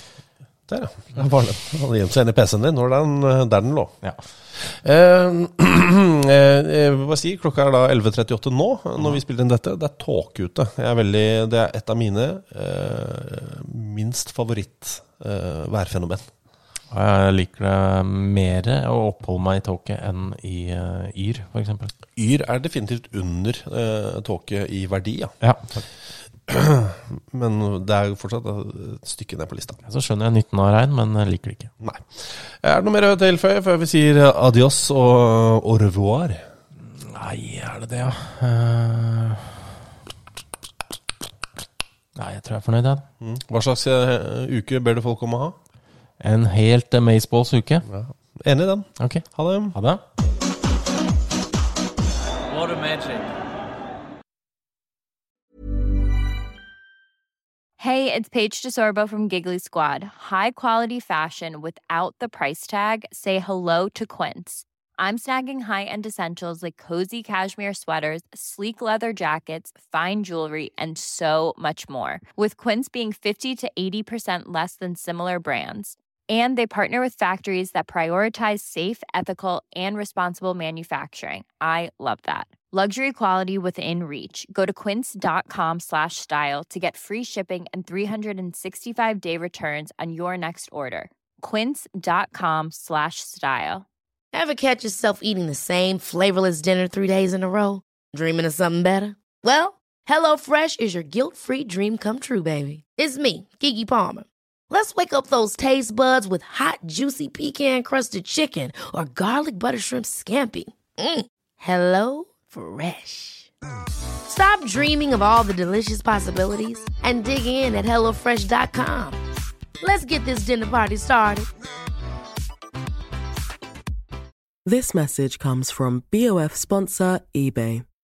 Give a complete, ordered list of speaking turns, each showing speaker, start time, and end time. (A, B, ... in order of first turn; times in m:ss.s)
0:00.7-0:04.0 A
0:04.5-0:16.3 A
0:16.9-0:21.9 B
0:22.2-0:25.3 A
0:25.4-0:25.8 B
0:26.5-0:29.8 A
0:29.8-0:31.7 B
0:31.8-0:36.4 A
0:36.8-0:39.6 B
0:42.2-0:43.1 B
0:43.2-0:45.6 A
0:46.2-0:47.8 B
0:47.9-0:49.8 A
0:49.0-0:50.0 B
0:57.8-1:33.9 C
1:34.3-1:53.5 D
1:54.3-1:59.2 D
1:59.8-2:01.5 D
2:04.7-2:07.8 E